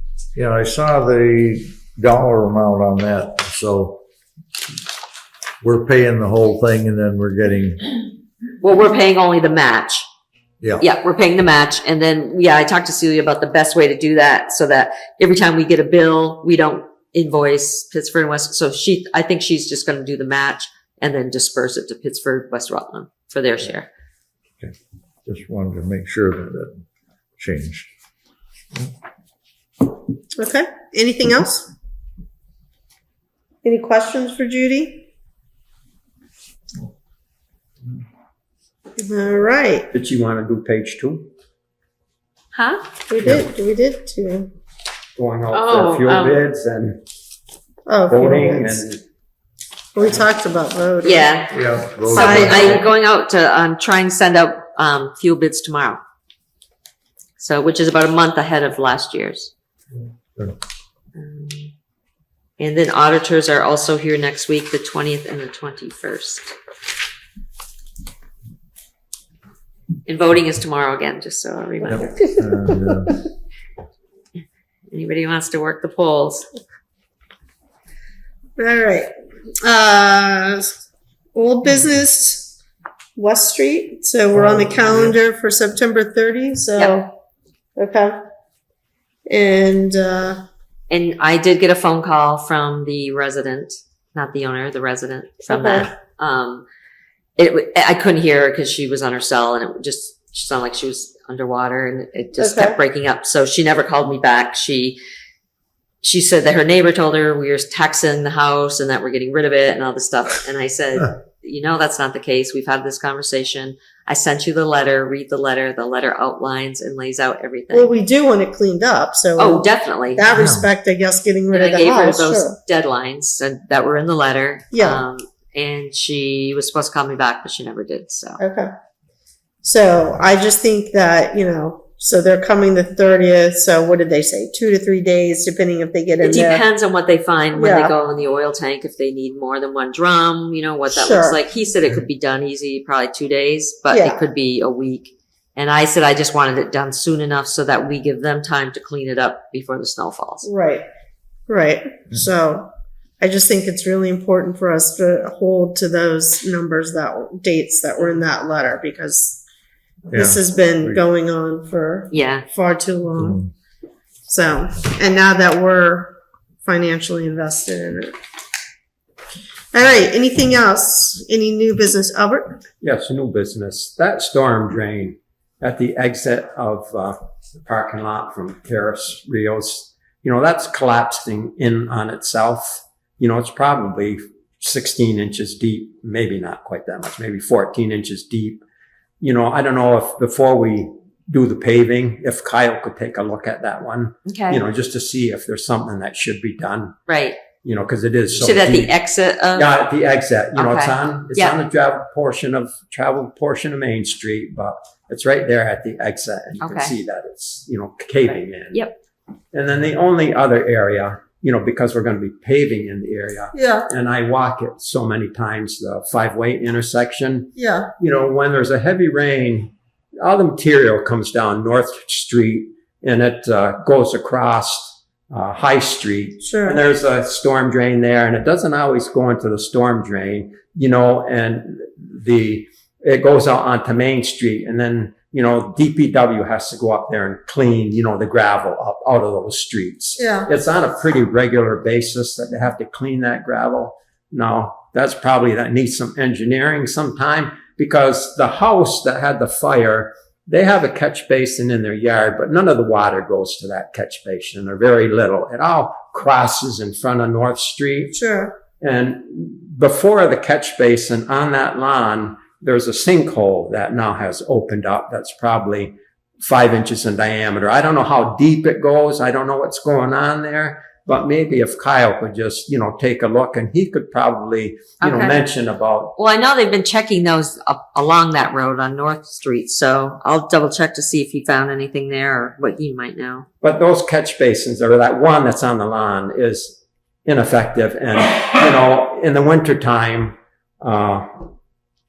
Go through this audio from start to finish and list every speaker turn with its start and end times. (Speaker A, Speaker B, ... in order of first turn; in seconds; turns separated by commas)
Speaker A: 0.3-4.0, Speaker A: 5.6-7.9, Speaker B: 8.6-10.1, Speaker A: 10.6-10.9, Speaker B: 10.8-23.9, Speaker A: 25.2-26.8, Speaker A: 27.4-27.9, Speaker C: 30.4-31.7, Speaker C: 33.6-35.1, Speaker C: 39.0-39.9, Speaker D: 39.9-41.3, Speaker B: 42.5-42.8, Speaker C: 43.1-44.5, Speaker D: 45.2-47.0, Speaker B: 45.5-46.4, Speaker C: 47.9-48.9, Speaker D: 48.1-49.0, Speaker C: 50.0-51.3, Speaker B: 51.0-56.0, Speaker A: 51.5-52.9, Speaker C: 52.1-52.8, Speaker B: 57.4-59.5, Speaker B: 61.1-61.7, Speaker B: 62.6-66.5, Speaker B: 70.1-72.3, Speaker A: 71.9-73.2, Speaker B: 74.9-76.5, Speaker C: 78.6-79.1, Speaker C: 79.6-80.7, Speaker C: 81.3-82.5, Speaker C: 83.2-87.1, Speaker A: 84.6-85.0, Speaker C: 87.8-88.2, Speaker C: 89.3-90.4, Speaker B: 90.9-96.7, Speaker C: 95.5-95.9, Speaker B: 97.4-105.0, Speaker C: 102.4-102.8, Speaker B: 106.0-117.9, Speaker C: 117.7-122.6, Speaker B: 119.4-120.3, Speaker A: 120.3-120.7, Speaker B: 121.5-128.4, Speaker C: 124.7-125.0, Speaker C: 128.4-128.7, Speaker C: 129.6-136.7, Speaker B: 136.2-150.5, Speaker C: 137.5-137.9, Speaker C: 140.9-141.4, Speaker C: 143.9-144.2, Speaker C: 150.4-150.9, Speaker C: 151.5-152.7, Speaker C: 153.2-159.4, Speaker A: 160.1-161.0, Speaker C: 160.1-163.4, Speaker B: 162.1-162.4, Speaker A: 163.2-163.5, Speaker C: 164.3-168.1, Speaker C: 169.7-172.6, Speaker D: 172.8-188.6, Speaker D: 189.2-197.0, Speaker B: 194.3-194.6, Speaker B: 197.1-197.4, Speaker D: 197.6-199.0, Speaker B: 198.4-199.7, Speaker D: 199.5-208.8, Speaker B: 200.6-201.6, Speaker B: 206.6-206.9, Speaker D: 209.5-258.1, Speaker C: 213.5-213.9, Speaker C: 217.6-217.9, Speaker C: 226.4-226.8, Speaker C: 240.2-240.5, Speaker C: 258.1-258.6, Speaker D: 258.8-276.2, Speaker B: 275.0-275.4, Speaker B: 276.2-283.5, Speaker D: 283.6-291.5